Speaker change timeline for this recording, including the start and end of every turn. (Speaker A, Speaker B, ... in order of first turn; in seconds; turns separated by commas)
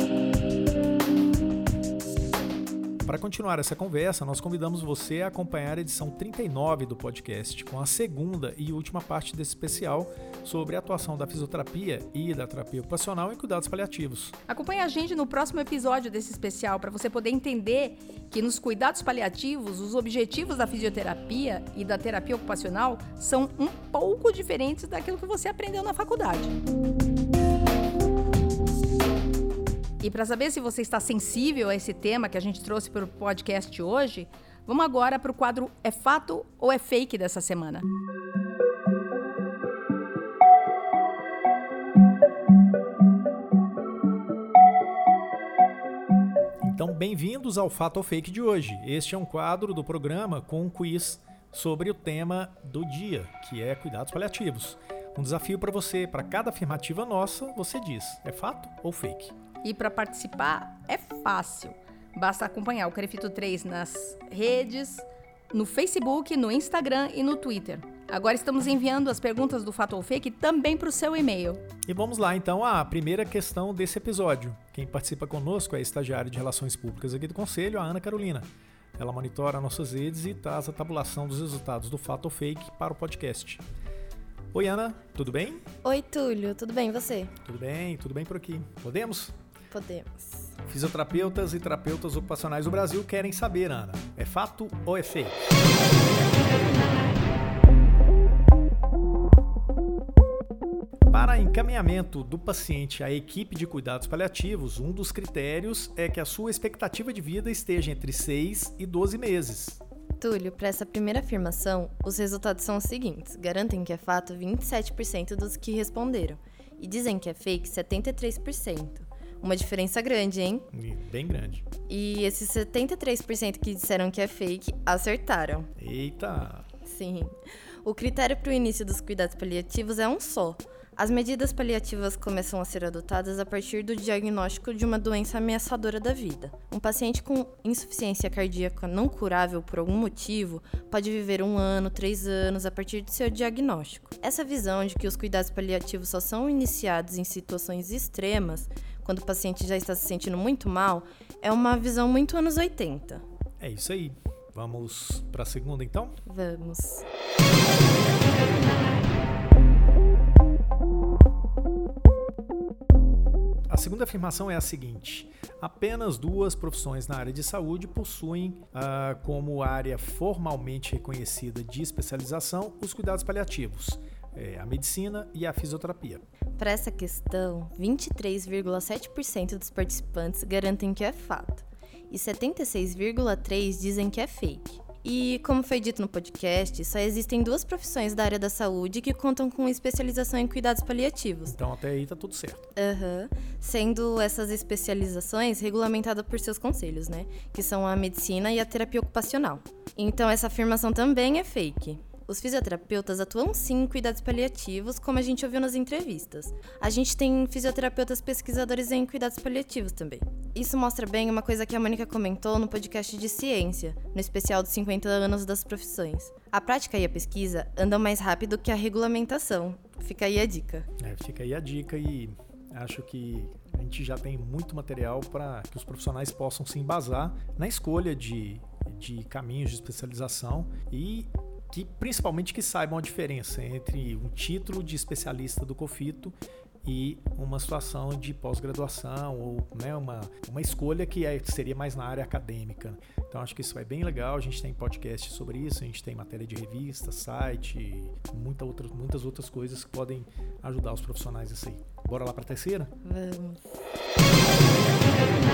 Speaker A: 3.1-14.4, Speaker B: 14.5-26.6, Speaker B: 30.0-37.9, Speaker A: 46.6-59.4, Speaker B: 59.6-71.6, Speaker A: 71.9-78.5, Speaker A: 79.0-83.6, Speaker A: 84.5-85.6, Speaker C: 85.8-87.3, Speaker A: 87.5-89.4, Speaker C: 89.7-90.5, Speaker A: 90.7-95.4, Speaker A: 101.1-109.8, Speaker C: 110.2-120.7, Speaker A: 120.7-121.7, Speaker C: 121.9-125.7, Speaker A: 125.8-126.7, Speaker C: 126.8-153.2, Speaker A: 153.6-156.2, Speaker C: 156.3-157.1, Speaker A: 163.7-176.2, Speaker C: 176.6-191.6, Speaker A: 191.5-192.7, Speaker C: 192.8-220.9, Speaker A: 221.0-252.9, Speaker C: 253.0-253.8